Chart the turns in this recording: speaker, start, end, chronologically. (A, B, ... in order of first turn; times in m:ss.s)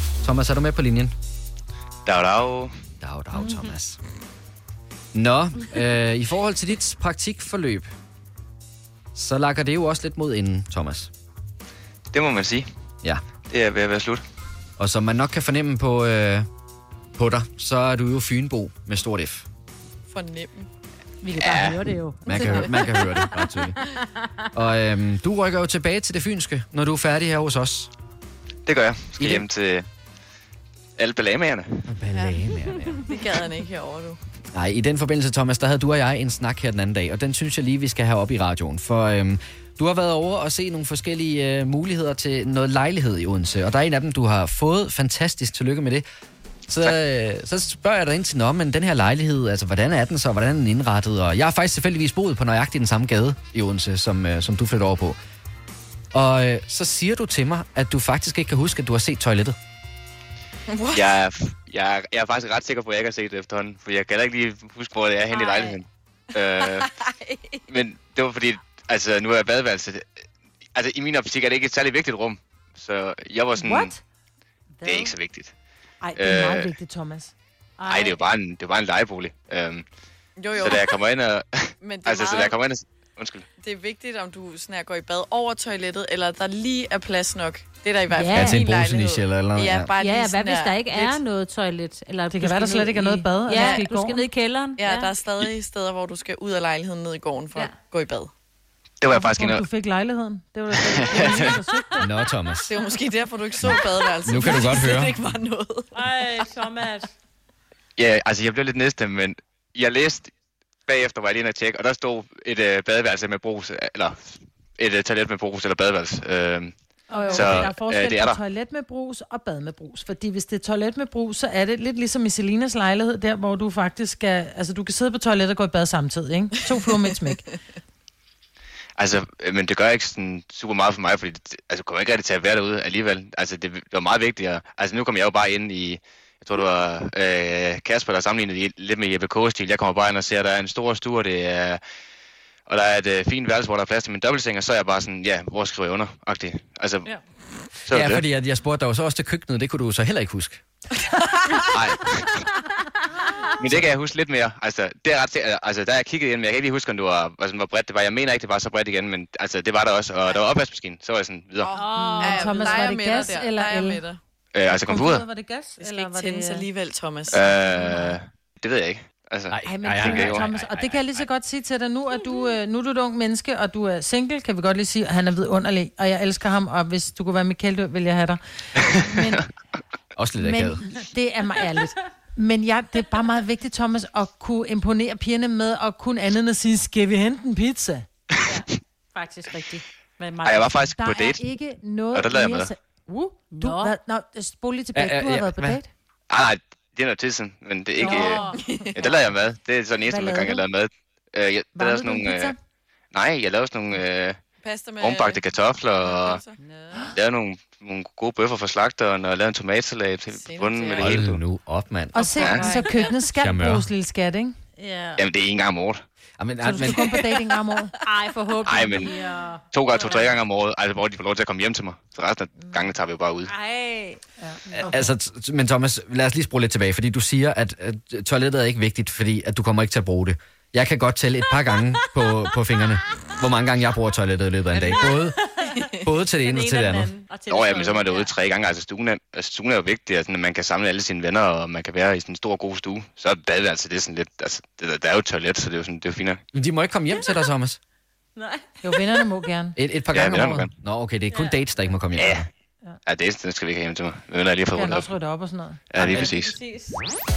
0:00.2-0:01.1 A
0:02.0-0:02.7 B
0:03.0-0:04.0 A
0:05.1-0:07.9 A
0:09.1-0:11.1 A
0:12.1-0:12.7 B
0:13.5-0:14.2 B
0:14.8-0:16.5 A
0:17.2-0:19.4 A
0:20.1-0:20.7 C
0:21.2-0:22.7 D
0:21.3-0:21.8 B
0:22.2-0:23.9 A
0:22.3-0:23.1 C
0:24.5-0:27.9 A
0:28.6-0:29.9 B
0:31.0-0:31.9 B
0:31.9-0:33.0 A
0:32.2-0:34.2 C
0:34.5-0:46.0 A
0:46.7-0:55.2 A
0:56.1-0:59.5 A
1:00.7-1:01.1 C
1:00.9-1:06.9 B
1:05.3-1:05.8 E
1:06.6-1:07.6 C
1:07.7-1:10.1 B
1:10.7-1:13.9 B
1:13.6-1:14.0 D
1:14.8-1:15.5 B
1:16.0-1:17.3 D
1:16.1-1:16.7 B
1:17.8-1:18.2 E
1:17.8-1:19.8 B
1:20.4-1:21.0 C
1:20.6-1:21.5 B
1:21.8-1:22.6 C
1:22.0-1:23.4 B
1:23.6-1:31.2 C
1:28.1-1:28.7 E
1:28.3-1:29.9 A
1:30.0-1:35.2 E
1:32.3-1:34.2 D
1:33.5-1:33.8 C
1:34.8-1:38.3 C
1:39.0-1:39.6 B
1:39.1-1:42.1 D
1:40.7-1:41.5 B
1:41.1-1:41.6 C
1:42.0-1:42.7 A
1:42.7-1:45.9 C
1:43.6-1:45.2 A
1:45.9-1:47.1 E
1:48.0-1:50.3 B
1:50.9-1:56.7 B
1:57.1-2:07.5 D
1:57.3-1:57.6 C
1:57.3-1:58.4 B
2:09.0-2:21.8 B
2:22.7-2:27.2 B
2:27.8-2:28.2 B
2:27.9-2:30.6 A
2:31.7-2:32.5 B
2:33.5-2:41.7 B
2:41.6-2:44.2 C
2:41.7-2:43.2 E
2:41.8-2:44.0 D
2:44.5-2:45.2 B
2:44.6-2:46.7 D
2:45.8-2:47.8 C
2:47.3-2:50.5 B
2:49.5-2:51.2 A
2:49.6-2:59.5 D
3:00.2-3:00.8 A
3:00.4-3:08.0 D
3:08.4-3:10.8 E
3:10.4-3:11.4 B
3:10.9-3:15.9 D
3:12.1-3:12.7 B
3:13.5-3:13.9 E
3:14.9-3:15.8 A
3:16.3-3:22.5 B
3:18.0-3:18.6 D
3:18.0-3:18.6 E
3:18.1-3:18.9 C
3:20.0-3:20.7 D
3:21.7-3:22.6 D
3:23.1-3:24.4 B
3:24.6-3:27.1 C
3:25.0-3:26.4 B
3:27.1-3:31.4 B
3:30.3-3:31.2 C
3:31.0-3:32.5 A
3:32.1-3:34.6 D
3:32.2-3:32.9 E
3:32.4-3:32.6 B
3:32.6-3:33.0 C
3:33.4-3:33.9 A
3:34.8-3:35.2 E
3:35.2-3:36.0 B
3:36.4-3:37.3 A
3:36.6-3:38.0 D
3:38.0-3:40.4 E
3:38.6-3:39.1 B
3:39.7-3:43.5 B
3:43.4-3:44.2 E
3:44.4-3:45.0 D
3:44.7-3:55.4 A
3:44.7-3:45.0 E
3:54.7-3:58.3 E
3:55.9-3:57.1 A
3:57.5-4:06.4 B
4:06.5-4:07.8 A
4:08.4-4:09.2 E
4:08.8-4:09.8 D
4:09.8-4:12.4 A
4:10.1-4:10.7 B
4:11.3-4:11.7 E
4:12.2-4:12.5 B
4:13.0-4:15.1 B
4:14.7-4:15.8 D
4:15.9-4:16.6 B
4:16.0-4:17.0 E